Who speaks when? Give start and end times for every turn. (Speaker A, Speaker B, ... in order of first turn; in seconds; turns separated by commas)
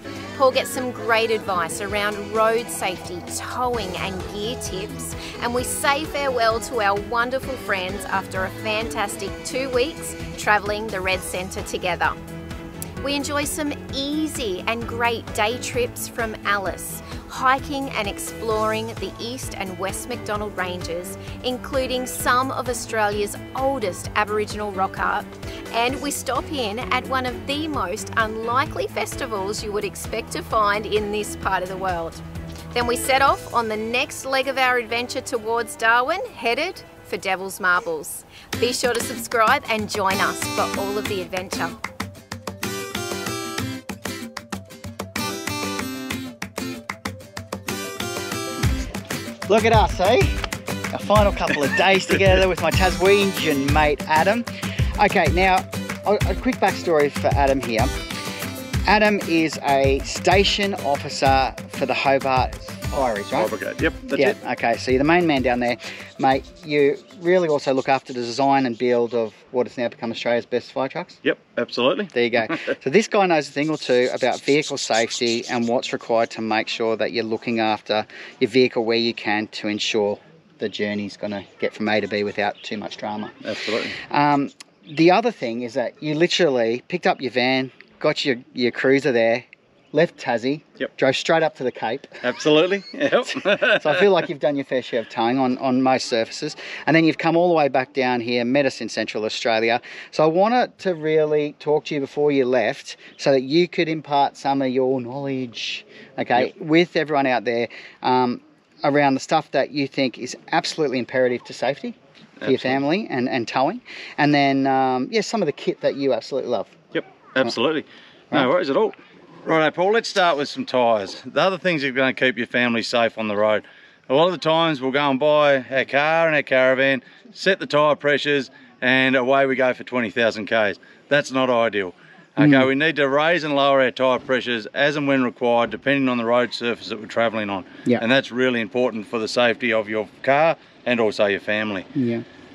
Speaker A: 0.3-12.2, Speaker A: 13.0-32.2, Speaker A: 32.7-41.8, Speaker B: 49.5-50.4, Speaker B: 50.9-57.9, Speaker B: 58.9-63.5, Speaker C: 63.4-64.3, Speaker B: 64.1-71.2, Speaker C: 71.2-72.5, Speaker B: 72.1-83.4, Speaker C: 83.4-84.0, Speaker B: 83.9-92.2, Speaker C: 92.2-94.2, Speaker B: 93.3-116.8, Speaker C: 112.4-112.8, Speaker C: 116.9-141.9, Speaker B: 132.4-132.7, Speaker B: 141.9-142.2